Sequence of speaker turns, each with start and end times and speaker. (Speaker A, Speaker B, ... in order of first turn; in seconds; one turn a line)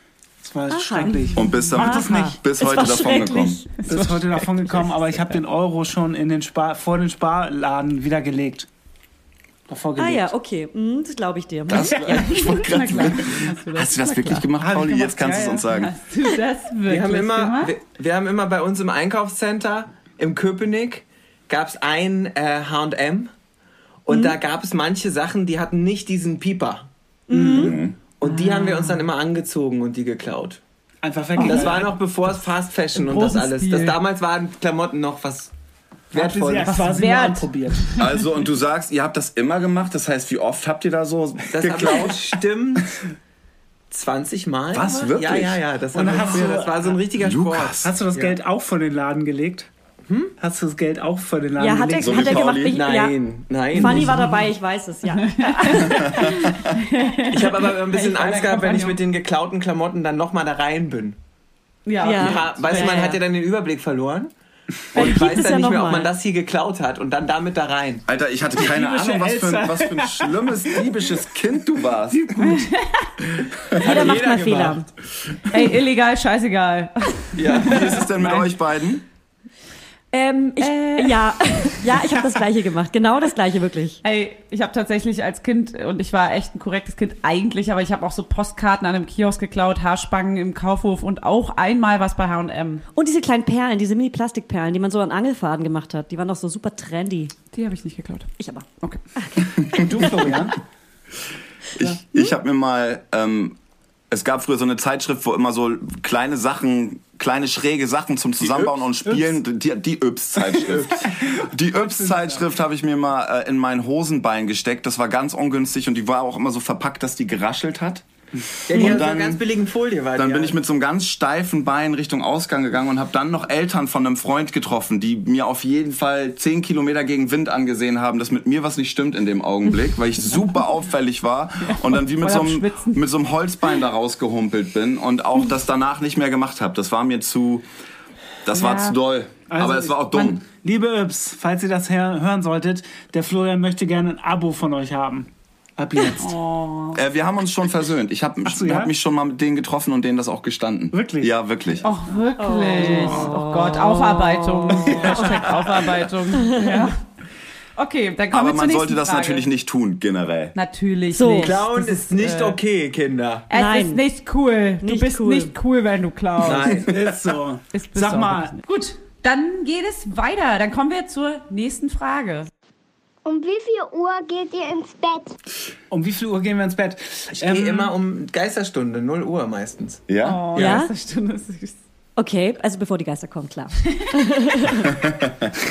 Speaker A: 0.4-2.4
Speaker B: 0.7-3.7
Speaker C: 1.3-3.8
Speaker A: 3.8-8.7
Speaker D: 3.8-5.3
Speaker A: 9.7-10.3
Speaker B: 9.9-12.5
Speaker C: 11.7-15.9
Speaker A: 11.8-12.4
Speaker D: 12.1-17.7
Speaker A: 14.6-15.5
Speaker E: 16.9-23.3
Speaker E: 24.1-26.9
Speaker B: 24.1-24.4
Speaker B: 27.3-27.8
Speaker A: 27.3-27.7
Speaker C: 27.5-27.9
Speaker E: 28.2-30.6
Speaker D: 28.2-29.0
Speaker A: 31.0-31.9
Speaker D: 31.4-31.9
Speaker E: 31.4-35.5
Speaker D: 32.9-34.0
Speaker E: 36.1-36.8
Speaker A: 36.1-38.0
Speaker D: 36.7-37.4
Speaker C: 38.0-42.2
Speaker E: 41.5-43.0
Speaker E: 43.9-48.4
Speaker C: 44.7-45.6
Speaker A: 45.9-47.0
Speaker C: 46.1-46.5
Speaker C: 47.2-47.9
Speaker A: 47.8-49.7
Speaker E: 50.1-50.3
Speaker A: 50.4-52.5
Speaker B: 51.6-56.2
Speaker C: 52.0-52.8
Speaker E: 52.6-54.2
Speaker D: 55.1-59.0
Speaker C: 55.8-56.6
Speaker E: 57.3-61.2
Speaker D: 61.9-63.2
Speaker B: 62.0-63.2
Speaker E: 62.0-64.3
Speaker E: 64.9-68.0
Speaker B: 64.9-66.1
Speaker C: 68.1-72.6
Speaker A: 68.5-70.9
Speaker A: 72.1-72.7
Speaker D: 72.5-73.0
Speaker E: 73.8-74.9
Speaker B: 73.8-74.9
Speaker D: 75.5-78.5
Speaker E: 77.3-78.1
Speaker C: 77.6-79.0
Speaker B: 80.1-84.0
Speaker D: 80.6-81.8
Speaker D: 84.0-92.8
Speaker B: 92.9-97.3
Speaker D: 97.5-98.3
Speaker B: 98.4-100.3
Speaker A: 99.7-100.6
Speaker C: 101.8-103.5
Speaker C: 104.1-118.0
Speaker E: 110.6-111.0
Speaker A: 111.7-112.4
Speaker E: 118.7-120.5
Speaker C: 118.7-119.4
Speaker C: 120.2-137.7
Speaker D: 131.7-133.0
Speaker C: 138.4-140.4
Speaker D: 138.5-138.9
Speaker A: 139.5-146.4
Speaker D: 146.2-147.0
Speaker C: 146.9-151.9
Speaker A: 148.4-148.9
Speaker A: 150.9-151.3
Speaker D: 151.8-157.0
Speaker B: 152.4-155.6
Speaker A: 152.8-153.3
Speaker A: 154.9-155.2
Speaker B: 156.3-156.9
Speaker D: 157.8-159.5
Speaker C: 158.3-160.5
Speaker D: 160.5-162.6
Speaker B: 161.1-161.6
Speaker E: 161.4-163.5
Speaker D: 163.5-166.8
Speaker B: 163.5-164.0
Speaker B: 164.8-165.5
Speaker E: 166.4-167.1
Speaker A: 166.8-168.6
Speaker D: 167.7-172.5
Speaker F: 173.2-175.3
Speaker A: 175.9-177.9
Speaker E: 177.3-180.0
Speaker C: 180.1-180.4
Speaker D: 180.2-181.8
Speaker B: 180.5-180.9
Speaker B: 182.2-185.0
Speaker D: 183.9-184.1
Speaker C: 184.8-185.5